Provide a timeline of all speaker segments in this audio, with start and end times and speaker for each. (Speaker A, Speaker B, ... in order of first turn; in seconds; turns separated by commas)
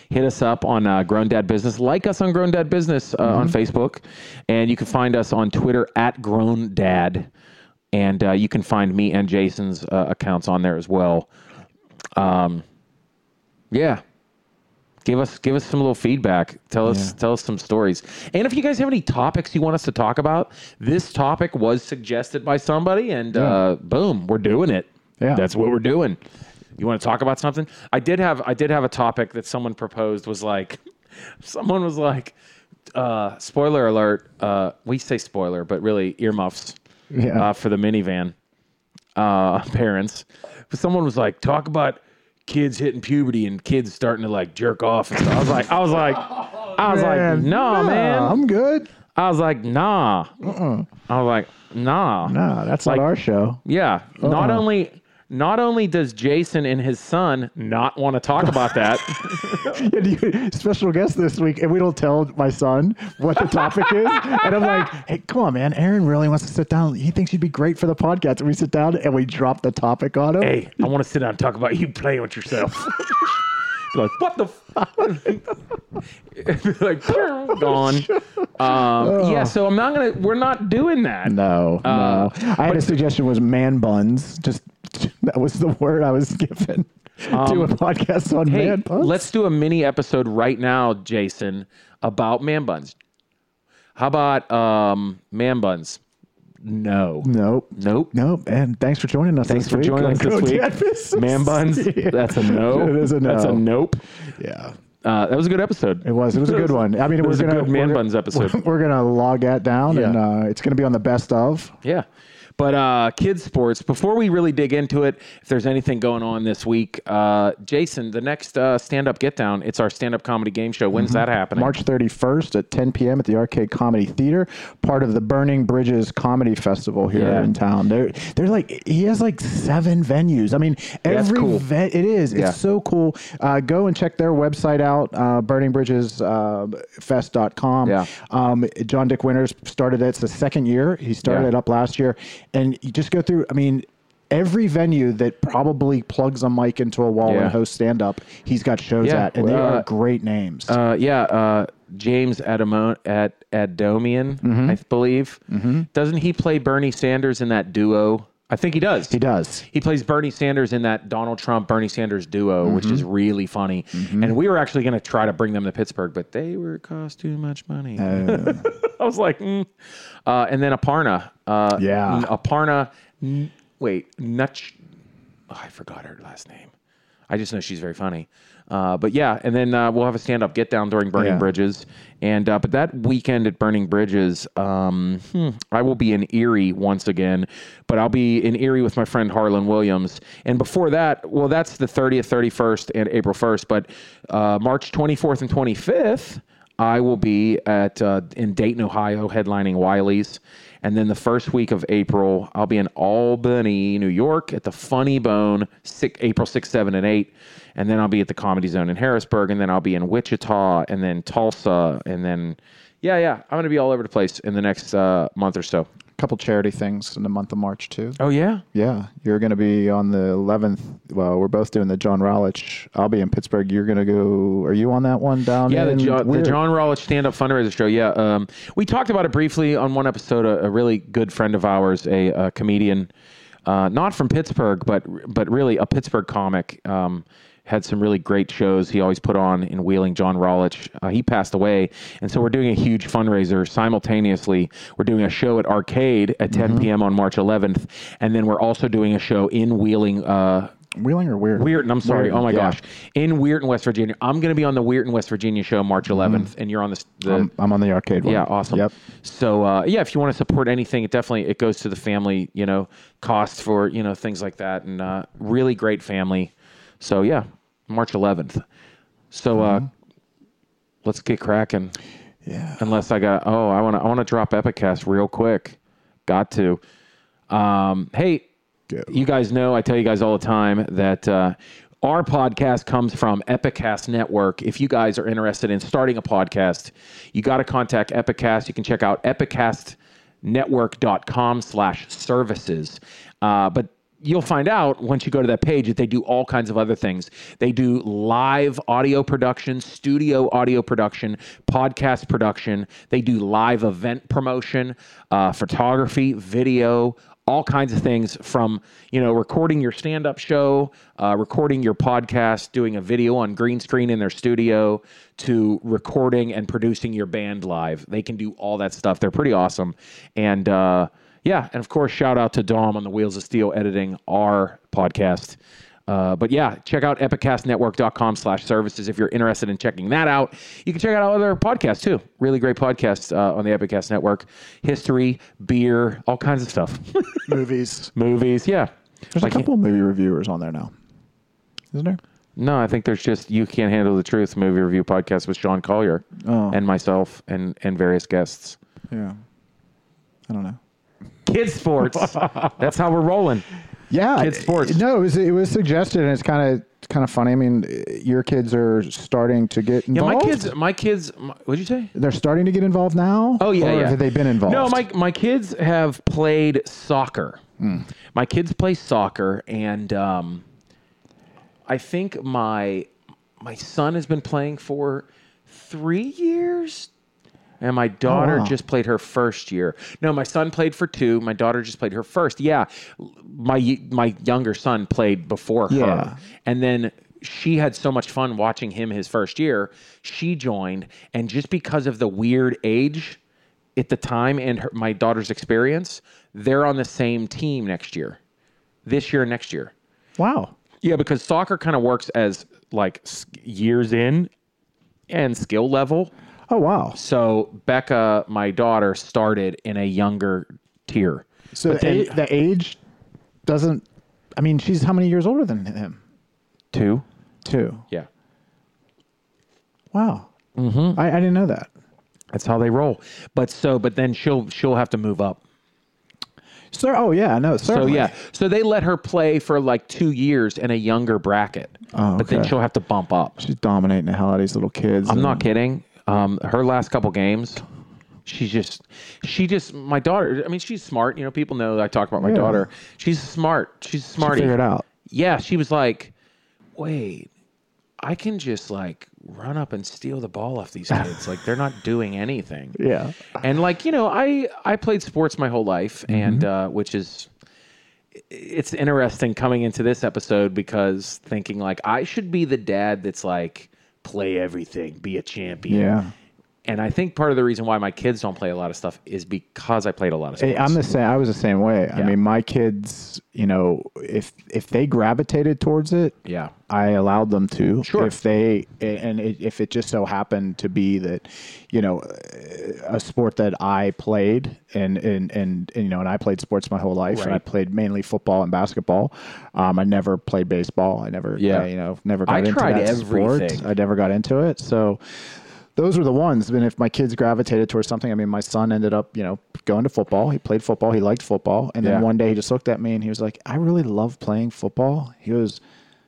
Speaker A: 0.1-7.3, Speaker B: 3.2-3.5, Speaker A: 7.9-11.3, Speaker A: 12.2-12.6, Speaker A: 13.7-14.0, Speaker A: 15.0-26.2, Speaker B: 16.9-17.1, Speaker B: 23.3-23.6, Speaker A: 26.8-32.3, Speaker A: 32.9-36.8, Speaker B: 37.1-37.5, Speaker A: 37.3-38.3, Speaker A: 39.1-48.4, Speaker B: 45.2-45.8, Speaker B: 46.3-48.9, Speaker A: 49.1-53.0, Speaker B: 50.4-50.9, Speaker B: 52.2-53.6, Speaker A: 53.6-59.8, Speaker B: 54.2-54.6, Speaker B: 58.4-70.8, Speaker A: 63.5-64.9, Speaker A: 70.4-75.6, Speaker A: 76.3-83.0, Speaker B: 77.5-79.6, Speaker B: 81.2-89.3, Speaker A: 87.2-87.7, Speaker A: 88.5-93.0, Speaker A: 93.9-96.0, Speaker A: 96.6-98.1, Speaker B: 97.2-103.6, Speaker A: 99.5-104.0, Speaker B: 104.2-104.8, Speaker A: 105.0-108.6, Speaker B: 106.0-111.7, Speaker A: 109.9-110.2, Speaker A: 112.6-121.7, Speaker B: 120.9-150.8, Speaker A: 127.1-127.5, Speaker A: 131.1-131.7, Speaker A: 132.3-132.6, Speaker A: 137.8-138.1, Speaker A: 147.2-147.6, Speaker A: 149.0-149.8, Speaker A: 150.7-159.2, Speaker B: 154.4-154.8, Speaker B: 155.5-155.9, Speaker B: 159.1-159.7, Speaker A: 159.7-169.7, Speaker B: 162.6-163.1, Speaker B: 163.9-164.3, Speaker B: 168.0-168.7, Speaker A: 170.2-174.8, Speaker B: 171.8-172.3, Speaker A: 175.5-176.7, Speaker A: 177.3-215.9, Speaker B: 181.2-181.5, Speaker B: 216.2-218.2, Speaker A: 218.2-218.6, Speaker B: 218.7-226.6, Speaker A: 225.7-233.1, Speaker A: 233.7-250.7, Speaker B: 246.5-246.9, Speaker B: 250.9-252.8, Speaker A: 251.6-257.5, Speaker B: 256.1-256.5, Speaker B: 257.2-258.9, Speaker A: 258.2-268.6, Speaker A: 269.3-269.9, Speaker B: 269.6-269.8, Speaker A: 271.0-271.9, Speaker B: 272.4-272.8, Speaker A: 272.8-276.8, Speaker A: 277.5-278.5, Speaker A: 279.1-337.6, Speaker B: 337.5-338.1, Speaker A: 338.1-339.7, Speaker B: 339.3-340.9, Speaker B: 341.9-342.2, Speaker A: 342.6-348.8, Speaker B: 346.4-346.8, Speaker B: 349.1-349.4, Speaker B: 350.5-350.8, Speaker A: 351.4-353.6, Speaker B: 354.1-360.7, Speaker A: 354.4-355.0, Speaker A: 360.1-362.1, Speaker B: 362.1-365.0, Speaker A: 363.6-367.6, Speaker B: 367.8-368.1, Speaker A: 368.3-370.6, Speaker A: 371.9-373.1, Speaker A: 373.6-377.1, Speaker A: 377.8-393.4, Speaker B: 378.3-378.7, Speaker B: 385.9-386.4, Speaker A: 393.9-398.4, Speaker A: 399.0-399.9, Speaker B: 400.4-400.7, Speaker A: 401.0-404.5, Speaker A: 405.3-406.3, Speaker B: 406.7-407.2, Speaker A: 407.1-412.4, Speaker B: 411.7-413.0, Speaker B: 413.6-414.0, Speaker B: 414.6-416.2, Speaker A: 416.9-417.2, Speaker B: 417.6-418.0, Speaker B: 420.1-420.5, Speaker A: 420.8-421.2, Speaker B: 421.1-421.9, Speaker A: 422.5-425.6, Speaker B: 426.9-428.3, Speaker A: 427.8-433.6, Speaker B: 432.1-432.7, Speaker B: 433.6-435.6, Speaker A: 435.2-437.8, Speaker A: 438.4-446.3, Speaker B: 442.4-442.9, Speaker B: 444.4-445.1, Speaker A: 447.0-447.5, Speaker A: 448.2-453.0, Speaker B: 452.9-453.5, Speaker A: 453.6-457.5, Speaker B: 456.3-456.7, Speaker A: 458.5-466.1, Speaker B: 465.9-466.3, Speaker A: 466.8-471.0, Speaker B: 470.6-476.4, Speaker A: 476.4-476.7, Speaker B: 476.9-505.8, Speaker A: 478.0-478.3, Speaker A: 487.3-487.6, Speaker A: 491.6-491.9, Speaker A: 492.4-493.9, Speaker A: 502.0-502.3